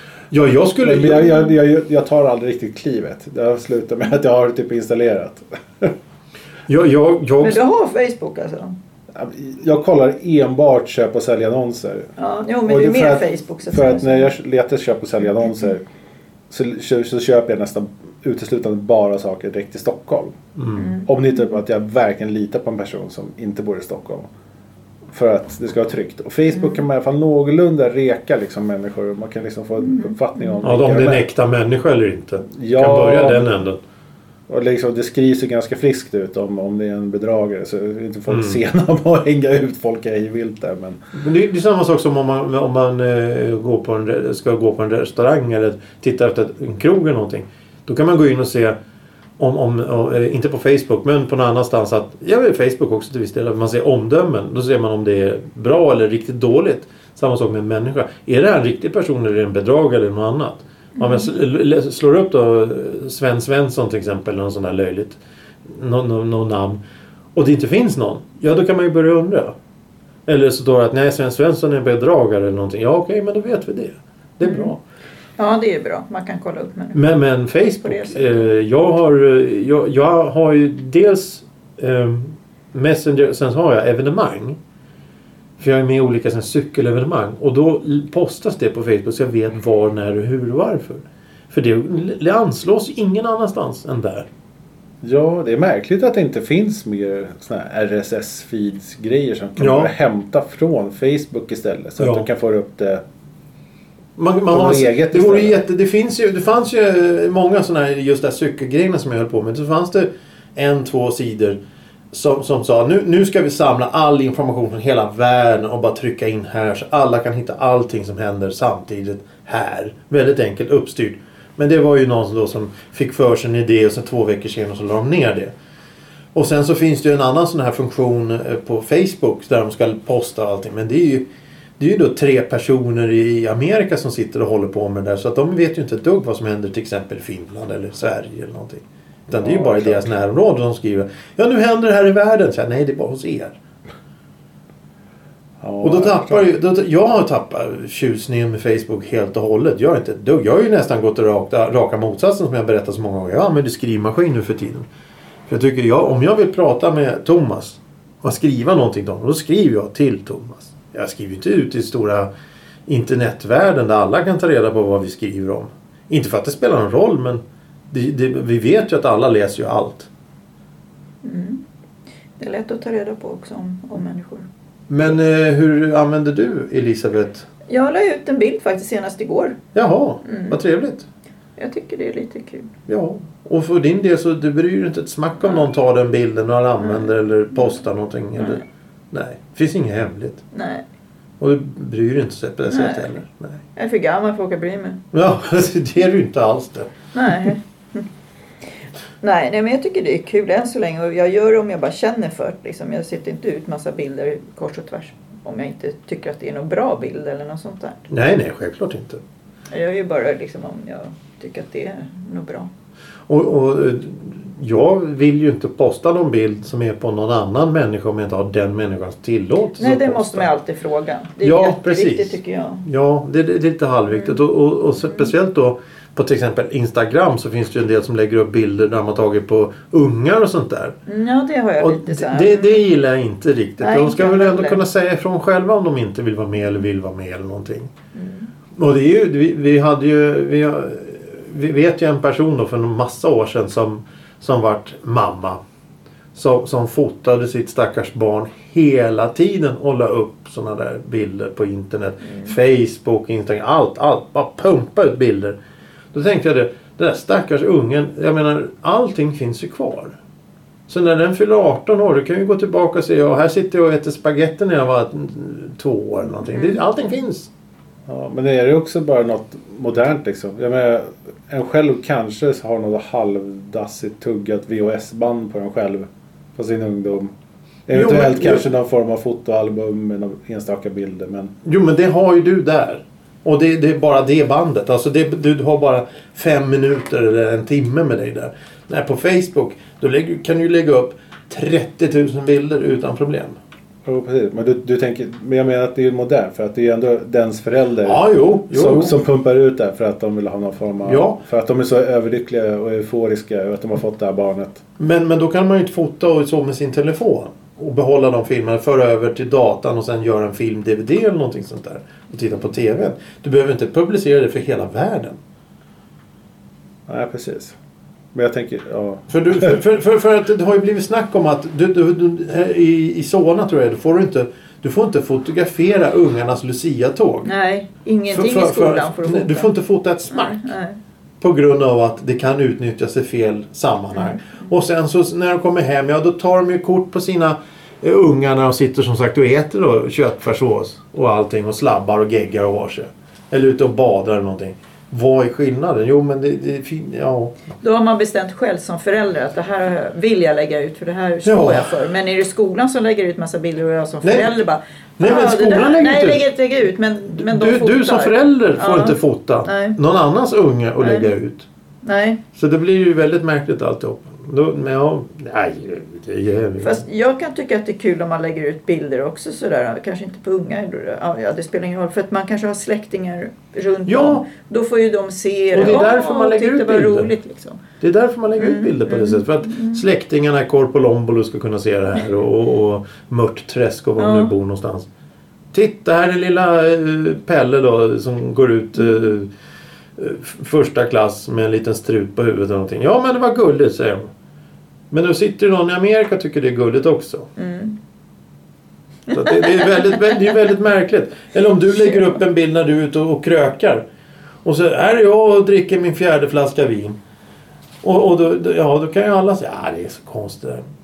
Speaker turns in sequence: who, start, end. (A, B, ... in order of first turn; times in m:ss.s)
0:00.3-0:01.3 A
0:00.8-0:05.9 B
0:06.7-0:07.6 A
0:07.4-0:08.8 C
0:09.1-0:12.1 B
0:12.2-0:14.3 C
0:12.6-0:15.8 B
0:16.5-0:20.4 B
0:20.6-0:20.9 A
0:20.8-0:21.5 C
0:21.0-0:24.3 B
0:25.1-0:31.2 B
0:26.5-0:26.8 C
0:29.8-0:30.6 C
0:30.6-0:33.8 A
0:32.5-0:33.5 B
0:34.5-0:41.0 B
0:38.3-0:38.6 A
0:41.1-0:48.8 A
0:49.4-1:06.8 A
1:01.0-1:01.3 C
1:07.3-1:09.5 A
1:10.2-1:14.8 A
1:14.4-1:14.7 C
1:15.4-1:17.0 C
1:16.9-1:24.6 A
1:17.8-1:18.3 C
1:25.6-1:34.3 A
1:35.0-1:43.0 B
1:39.6-1:39.9 A
1:42.0-1:42.2 A
1:44.2-1:51.6 A
1:44.5-1:45.6 B
1:52.1-2:05.5 A
2:06.3-2:11.3 A
2:11.8-2:23.6 A
2:19.4-2:20.1 B
2:25.6-2:26.5 B
2:25.8-2:34.9 A
2:35.5-2:42.3 A
2:42.9-2:50.1 A
2:51.2-2:51.6 C
2:52.4-2:54.5 C
2:54.9-2:57.5 A
2:57.7-2:59.6 C
2:59.7-3:01.0 A
3:00.2-3:00.6 C
3:01.6-3:02.7 C
3:02.9-3:10.4 A
3:06.8-3:07.1 C
3:08.4-3:08.6 C
3:10.5-3:10.8 C
3:11.4-3:13.6 A
3:12.7-3:13.1 C
3:13.8-3:15.0 C
3:15.1-3:16.9 A
3:17.1-3:18.0 C
3:19.2-3:28.0 C
3:28.1-3:29.2 A
3:29.7-3:32.7 C
3:33.3-3:40.5 A
3:39.8-3:42.8 C
3:41.4-3:51.0 A
3:51.1-3:52.9 C
3:51.8-3:57.9 A
3:53.8-3:54.8 C
3:58.1-3:58.5 C
3:58.8-4:05.6 A
4:06.3-4:15.6 A
4:16.1-4:20.2 A
4:20.9-4:27.5 A
4:26.5-4:26.8 C
4:28.1-4:37.3 B
4:37.9-4:41.5 B
4:37.9-4:38.6 A
4:41.6-4:53.6 A
4:54.0-5:04.8 B
4:58.0-4:59.2 A
5:01.0-5:01.4 A
5:05.0-5:15.4 A
5:17.1-5:17.8 B
5:18.3-5:19.8 B
5:19.3-5:27.5 A
5:27.4-5:29.7 C
5:28.3-5:30.7 A
5:30.3-5:31.0 C
5:31.4-5:47.6 A
5:34.1-5:34.6 C
5:47.8-6:00.0 C
5:51.4-5:51.9 A
5:54.2-5:54.6 A
5:55.2-5:56.4 A
5:57.4-6:01.7 A
6:01.0-6:01.3 C
6:02.0-6:02.4 C
6:02.5-6:07.0 A
6:06.8-6:17.8 C
6:14.0-6:14.4 A
6:15.7-6:17.3 A
6:18.0-6:25.1 A
6:18.6-6:20.0 C
6:24.2-6:24.5 C
6:25.7-6:29.5 A
6:30.2-6:34.3 A
6:35.1-6:37.5 A
6:37.6-6:38.0 C
6:39.3-6:40.2 C
6:39.3-6:44.0 A
6:44.6-6:47.2 A
6:48.0-6:50.8 A